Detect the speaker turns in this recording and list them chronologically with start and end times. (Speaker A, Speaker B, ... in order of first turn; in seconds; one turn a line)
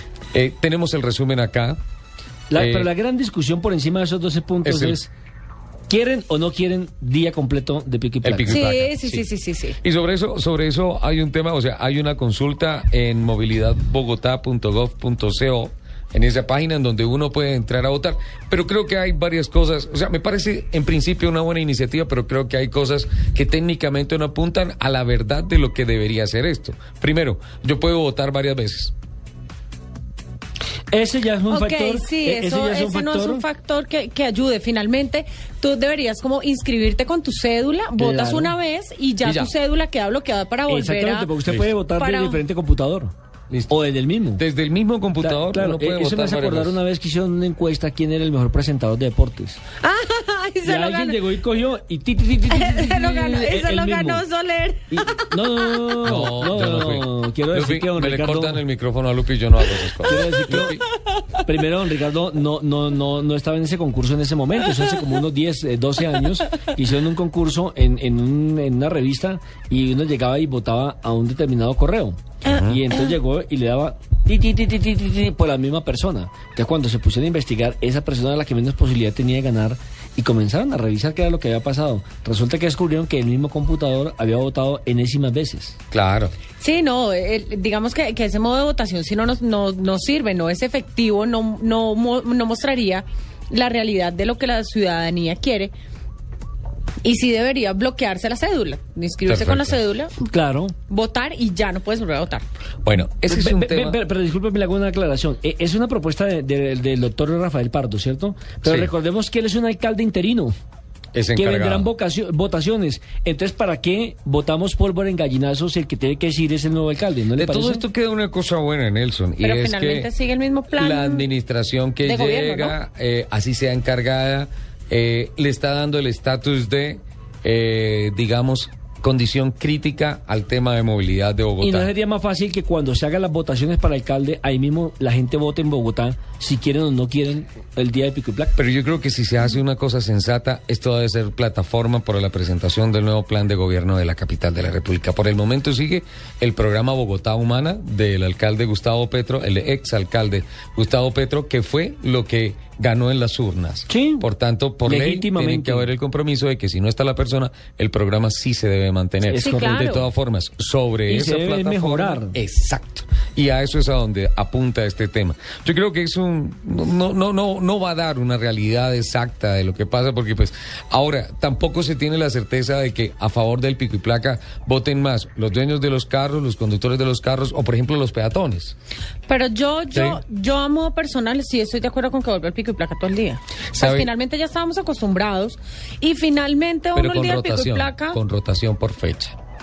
Speaker A: 0.3-1.8
Speaker B: 2.5-5.1
Speaker A: 2.5-2.9
Speaker A: 4.6-5.0
Speaker B: 5.9-8.6
Speaker A: 8.2-9.2
Speaker C: 8.5-9.8
Speaker A: 9.8-28.9
Speaker B: 30.9-33.4
Speaker C: 31.5-41.3
Speaker B: 38.0-38.5
Speaker A: 39.2-39.5
Speaker B: 40.7-43.1
Speaker C: 42.0-42.4
Speaker B: 43.7-44.4
Speaker A: 44.4-46.8
Speaker B: 45.2-49.6
Speaker C: 49.8-51.2
Speaker B: 50.6-54.2
Speaker C: 52.5-55.9
Speaker B: 54.9-58.6
Speaker A: 56.0-60.8
Speaker B: 60.0-60.8
Speaker B: 61.4-85.8
Speaker A: 72.5-72.8
Speaker A: 85.9-86.3
Speaker C: 86.6-95.7
Speaker C: 97.0-100.1
Speaker A: 99.2-99.8
Speaker B: 100.2-100.7
Speaker C: 100.9-102.4
Speaker A: 102.8-104.0
Speaker B: 103.3-110.5
Speaker A: 108.6-108.9
Speaker A: 111.1-111.9
Speaker B: 111.3-117.8
Speaker A: 117.3-120.1
Speaker C: 119.4-121.2
Speaker A: 120.7-131.9
Speaker C: 122.0-122.8
Speaker B: 131.6-138.6
Speaker A: 138.6-178.8
Speaker B: 153.9-154.2
Speaker B: 154.8-155.9
Speaker B: 159.3-159.8
Speaker C: 159.3-160.1
Speaker B: 161.1-162.4
Speaker C: 179.3-188.2
Speaker A: 179.9-180.2
Speaker A: 183.7-184.1
Speaker A: 186.9-189.3